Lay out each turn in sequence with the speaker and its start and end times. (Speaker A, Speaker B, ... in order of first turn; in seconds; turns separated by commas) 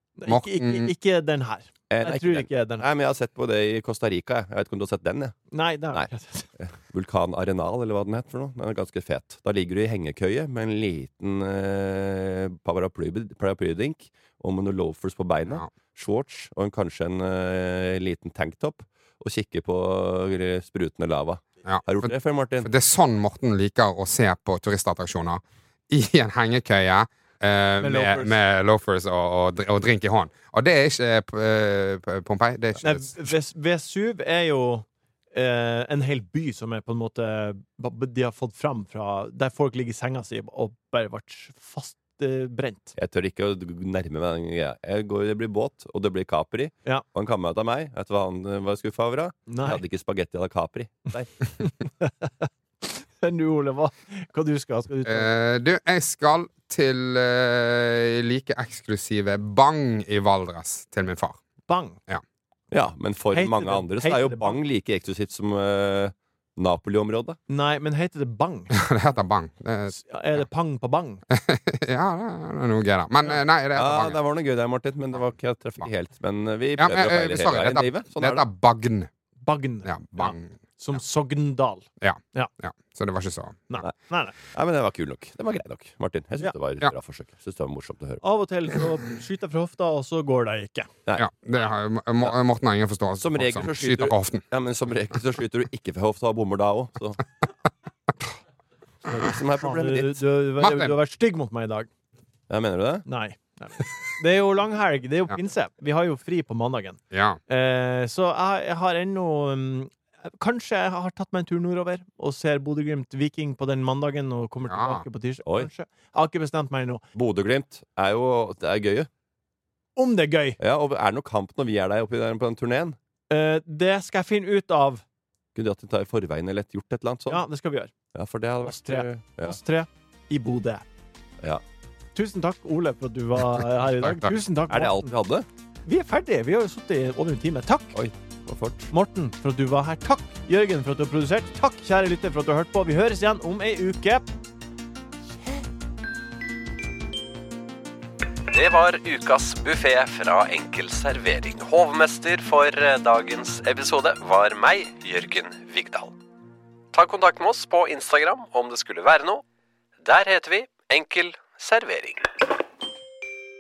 Speaker A: 0.2-2.9, Speaker B: 0.3-0.9, Speaker C: 1.9-5.4, Speaker A: 5.5-6.5, Speaker C: 6.6-22.7, Speaker B: 21.7-22.1, Speaker B: 22.6-33.3, Speaker A: 27.8-28.4, Speaker A: 32.8-42.9, Speaker C: 43.0-51.5, Speaker A: 49.5-49.8, Speaker A: 51.6-55.3, Speaker B: 55.0-61.4, Speaker A: 61.7-62.0, Speaker C: 62.7-67.4, Speaker A: 63.3-64.6, Speaker A: 67.5-68.7, Speaker B: 68.7-70.0, Speaker A: 69.9-71.2, Speaker B: 71.3-74.2, Speaker C: 73.8-78.4, Speaker B: 76.8-79.1, Speaker A: 79.4-82.5, Speaker B: 79.9-80.5, Speaker B: 82.0-83.7, Speaker A: 83.7-84.4, Speaker C: 84.5-88.2, Speaker A: 88.2-90.9, Speaker B: 91.2-94.4, Speaker C: 93.2-97.2, Speaker C: 99.1-100.2, Speaker A: 99.1-101.9, Speaker B: 100.6-100.9, Speaker C: 102.5-103.0, Speaker A: 103.1-117.0, Speaker B: 107.1-107.4, Speaker B: 114.7-115.0, Speaker C: 117.2-119.1, Speaker A: 120.0-120.6, Speaker C: 120.6-123.0, Speaker A: 123.3-125.0, Speaker C: 125.5-127.4, Speaker A: 127.3-127.9, Speaker C: 128.2-129.6, Speaker A: 128.7-130.8, Speaker A: 132.2-135.1, Speaker B: 133.8-134.3, Speaker C: 134.7-135.5, Speaker A: 135.9-138.0, Speaker C: 137.9-138.9, Speaker A: 138.9-144.3, Speaker D: 148.5-156.1, Speaker D: 156.9-159.4, Speaker D: 160.0-162.2